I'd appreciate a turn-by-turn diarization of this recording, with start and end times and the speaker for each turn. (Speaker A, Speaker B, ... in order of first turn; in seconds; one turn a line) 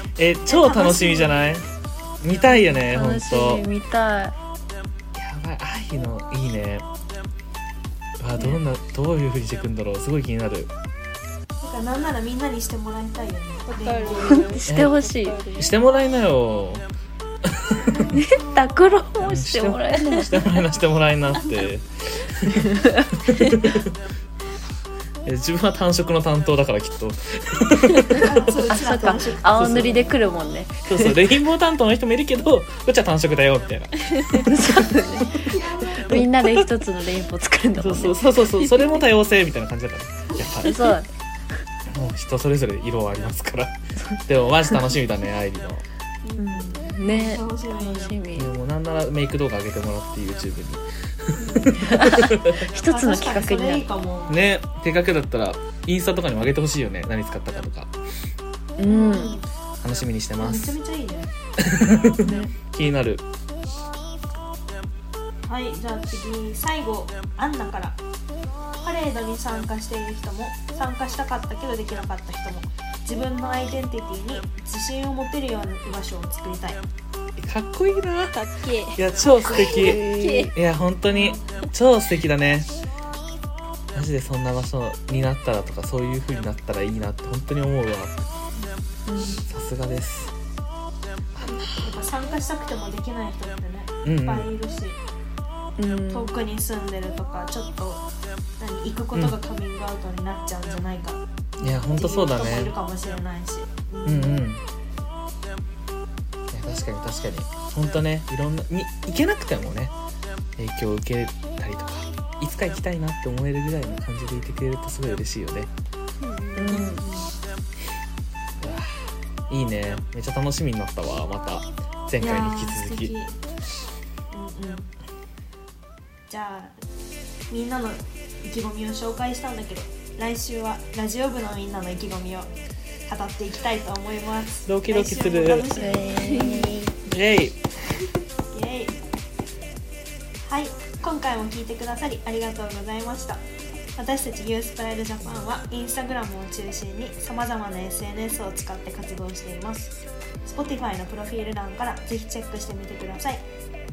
Speaker A: 0.2-1.6
Speaker B: 0.5-1.5
Speaker A: 2.2-3.6
Speaker C: 2.6-4.3
Speaker A: 5.2-6.8
Speaker A: 8.2-10.7
Speaker B: 11.6-14.6
Speaker D: 13.7-15.7
Speaker C: 14.1-15.5
Speaker A: 14.7-15.0
Speaker A: 15.6-16.9
Speaker A: 17.4-18.1
Speaker B: 17.9-18.7
Speaker C: 18.1-20.6
Speaker A: 19.2-24.0
Speaker C: 22.6-23.1
Speaker A: 25.2-28.4
Speaker B: 28.1-30.4
Speaker C: 28.7-31.2
Speaker A: 29.6-30.1
Speaker A: 30.9-36.7
Speaker C: 34.3-38.2
Speaker B: 35.6-35.9
Speaker A: 37.8-41.0
Speaker C: 40.6-41.1
Speaker A: 41.9-45.8
Speaker D: 46.2-46.8
Speaker C: 46.4-48.5
Speaker B: 47.0-48.2
Speaker A: 48.4-52.7
Speaker D: 51.4-51.8
Speaker C: 51.8-53.9
Speaker B: 52.8-54.4
Speaker A: 54.3-57.9
Speaker C: 58.8-59.4
Speaker B: 58.8-59.5
Speaker A: 59.8-60.7
Speaker B: 60.4-61.3
Speaker A: 61.6-63.2
Speaker C: 62.2-62.5
Speaker B: 65.5-68.0
Speaker B: 68.8-76.8
Speaker A: 77.4-78.4
Speaker D: 78.3-79.0
Speaker A: 79.0-82.7
Speaker C: 79.5-80.5
Speaker D: 79.6-80.5
Speaker B: 81.1-81.6
Speaker A: 83.9-88.1
Speaker C: 89.1-89.4
Speaker A: 89.4-90.3
Speaker A: 91.3-91.8
Speaker B: 91.8-95.0
Speaker A: 94.0-94.5
Speaker C: 95.8-96.3
Speaker B: 96.1-98.0
Speaker B: 98.6-104.5
Speaker A: 101.6-102.7
Speaker A: 104.0-104.6
Speaker A: 106.5-109.9
Speaker A: 110.6-115.7
Speaker D: 116.2-116.9
Speaker C: 116.5-117.1
Speaker B: 116.7-117.3
Speaker A: 118.6-123.1
Speaker B: 122.2-123.4
Speaker B: 124.3-124.9
Speaker B: 126.3-126.8
Speaker B: 127.5-132.5
Speaker B: 133.1-136.7
Speaker A: 134.7-135.8
Speaker C: 135.7-136.9
Speaker D: 136.1-136.7
Speaker A: 137.1-137.6
Speaker B: 138.5-139.0
Speaker B: 140.5-143.4
Speaker B: 144.0-149.9
Speaker B: 150.5-153.4